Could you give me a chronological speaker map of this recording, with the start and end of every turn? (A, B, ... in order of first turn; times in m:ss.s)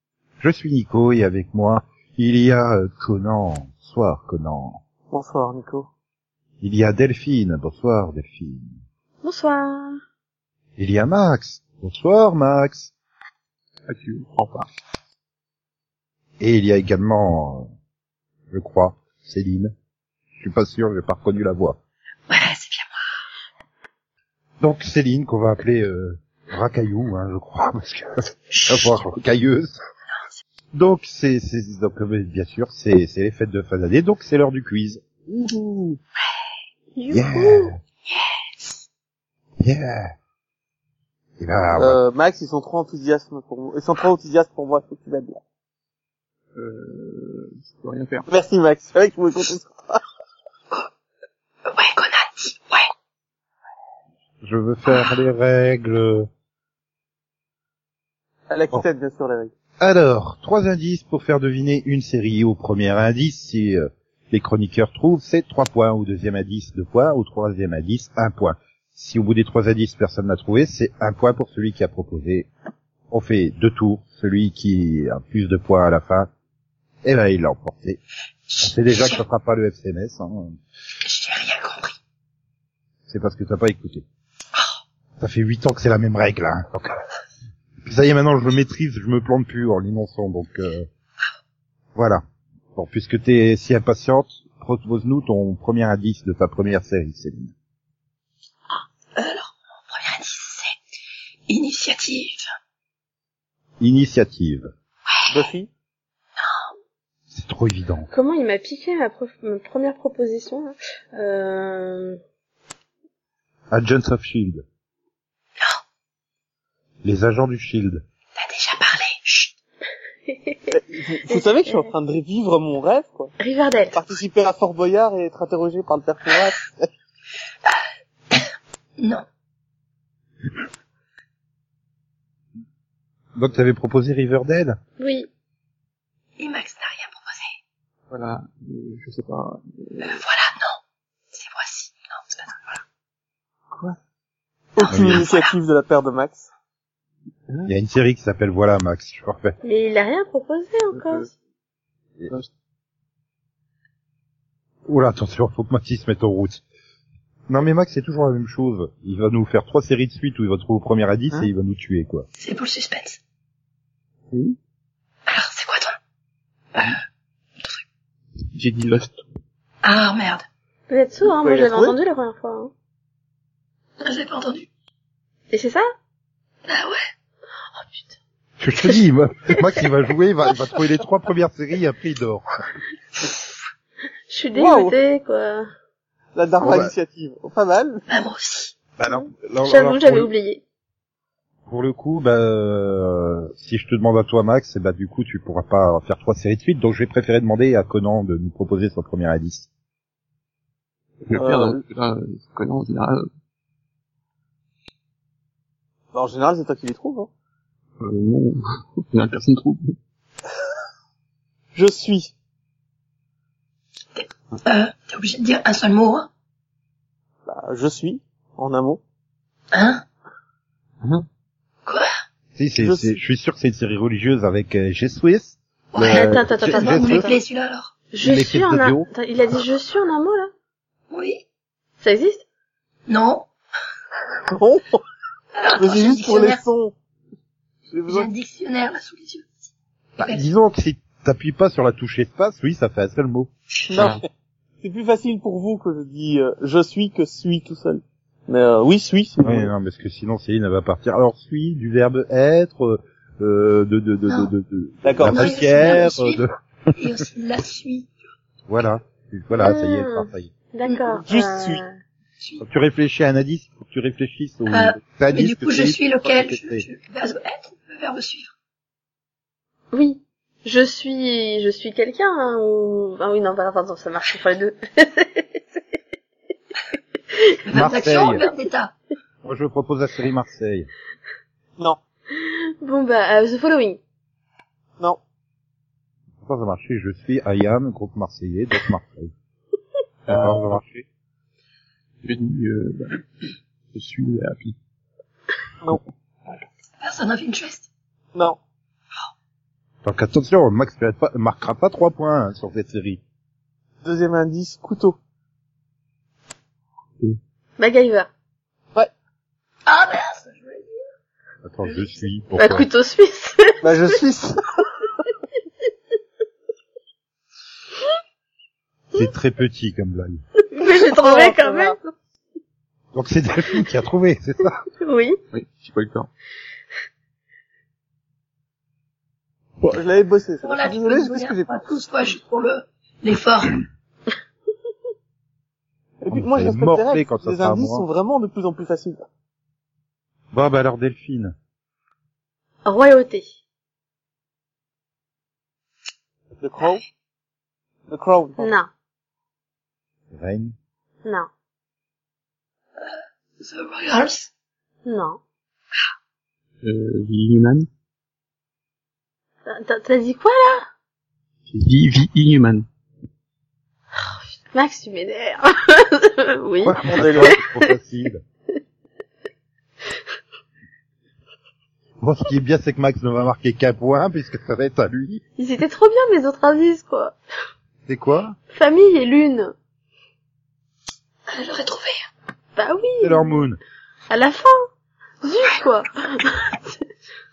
0:00.4-0:04.8 A
0:05.1-0:05.9 B
0:06.6-0:08.8 A
0:09.2-0:10.0 C
0:10.8-0:12.9 A
0:13.9-0:14.7 D
0:16.4-0:17.7 A
0:18.5-0:19.7 A
0:20.4-0:21.8 A
0:22.3-0:22.9 E
0:24.6-0:29.8 A
0:28.5-0:28.9 E
0:30.7-0:36.0 A
0:37.0-0:37.7 C
0:37.1-0:37.8 A
0:38.1-0:38.8 E
0:39.6-0:40.1 A
0:41.4-0:42.0 A
0:41.8-0:45.4 B
0:46.6-0:48.3 D
0:48.3-0:50.0 B
0:51.7-0:52.9 E
0:54.4-0:56.3 A
0:58.5-0:59.5 B
0:59.8-1:12.5 A
1:13.1-1:16.3 A
1:17.0-1:18.0 A
1:18.5-1:19.2 E
1:18.6-1:20.6 A
1:21.0-1:22.0 E
1:23.1-1:24.0 A
1:25.2-1:27.0 A
1:27.8-1:30.9 A
1:32.0-1:32.2 A
1:32.8-1:37.5 A
1:38.8-1:40.8 E
1:41.5-1:42.4 E
1:43.8-1:44.7 A
1:45.3-1:45.7 B
1:46.4-1:46.7 E
1:47.3-1:48.1 A
1:48.1-1:52.2 C
1:53.7-1:54.6 A
1:57.0-1:58.0 A
1:58.4-1:59.5 E
2:00.3-2:00.7 C
2:00.7-2:03.3 B
2:01.3-2:01.9 C
2:03.4-2:04.0 C
2:03.9-2:06.9 B
2:09.0-2:09.2 E
2:13.4-2:14.8 A
2:15.0-2:15.3 C
2:16.4-2:17.5 E
2:18.1-2:20.2 D
2:20.0-2:20.8 E
2:21.3-2:22.8 E
2:24.8-2:26.5 B
2:24.9-2:25.2 A
2:25.2-2:25.5 E
2:27.7-2:29.6 A
2:29.6-2:31.3 C
2:34.9-2:36.6 A
2:37.5-2:42.3 A
2:42.4-2:43.2 E
2:44.3-2:44.6 D
2:45.3-2:46.0 E
2:48.5-2:49.2 D
2:49.8-2:50.4 E
2:50.9-2:52.7 C
2:51.3-2:52.0 B
2:54.0-2:54.7 E
2:55.5-2:55.8 C
2:56.7-2:57.0 E
2:57.8-2:58.2 C
2:58.6-3:02.4 A
3:04.3-3:05.7 C
3:04.6-3:04.9 B
3:06.4-3:08.0 B
3:06.6-3:06.9 A
3:08.1-3:08.7 E
3:09.0-3:10.3 A
3:09.1-3:10.6 C
3:11.7-3:19.7 A
3:21.2-3:23.3 D
3:21.3-3:21.8 B
3:26.1-3:27.3 B
3:28.0-3:28.6 D
3:29.1-3:30.0 D
3:31.8-3:32.3 B
3:34.2-3:36.3 E
3:37.5-3:39.0 B
3:39.7-3:40.0 E
3:42.6-3:47.3 A
3:42.8-3:43.1 B
3:45.9-3:48.0 E
3:46.1-3:47.3 C
3:48.1-3:50.5 C
3:48.2-3:49.1 A
3:51.1-3:51.4 E
3:52.0-3:52.4 C
3:53.1-3:53.5 E
3:54.5-3:55.0 B
3:55.6-3:56.6 E
3:55.8-3:56.9 B
3:57.9-3:58.3 B
3:58.1-3:59.6 E
4:00.2-4:00.5 E
4:00.2-4:03.5 A
4:03.9-4:04.3 B
4:04.0-4:04.2 D
4:04.8-4:09.7 B
4:09.4-4:16.5 A
4:15.0-4:15.9 B
4:15.2-4:16.4 E
4:17.0-4:18.1 E
4:18.7-4:20.5 A
4:19.6-4:22.0 C
4:20.9-4:21.2 E
4:21.3-4:21.8 B
4:22.6-4:26.8 A
4:24.7-4:28.5 E
4:29.9-4:35.6 C
4:37.7-4:39.0 E
4:37.7-4:38.4 A
4:39.4-4:40.9 A
4:42.4-4:44.0 C
4:46.4-4:49.3 A
4:50.3-4:50.8 D
4:50.3-4:51.0 A
4:52.2-4:53.2 D
4:53.9-4:54.8 D
4:57.0-4:57.9 E
5:00.0-5:03.2 A
5:04.0-5:05.2 B
5:07.8-5:08.3 C
5:09.9-5:11.0 E
5:11.6-5:12.9 A
5:11.8-5:12.2 E
5:12.6-5:13.9 C
5:13.8-5:14.6 B
5:19.1-5:20.4 A
5:20.7-5:22.0 C
5:21.0-5:22.0 B
5:23.1-5:24.8 A
5:25.0-5:25.4 C
5:25.5-5:26.3 D
5:29.8-5:31.7 B
5:30.6-5:33.8 E
5:36.2-5:39.2 B
5:36.3-5:38.1 A
5:40.5-5:41.5 A
5:42.8-5:43.5 C
5:46.6-5:47.0 B
5:48.1-5:48.7 B
5:48.6-5:48.9 C
5:50.3-5:50.8 A
5:51.2-5:51.5 C
5:53.0-5:54.5 E
5:55.0-5:55.4 C
5:56.8-5:57.9 D
5:59.7-6:00.9 C
6:01.7-6:02.9 D
6:04.2-6:07.9 C
6:06.8-6:08.4 A
6:07.1-6:07.5 B
6:12.2-6:15.4 A
6:15.6-6:17.4 C
6:18.1-6:18.6 A
6:18.7-6:19.7 C
6:21.5-6:22.2 E
6:22.8-6:23.6 C
6:23.2-6:23.8 A
6:24.3-6:24.9 C
6:25.4-6:27.0 C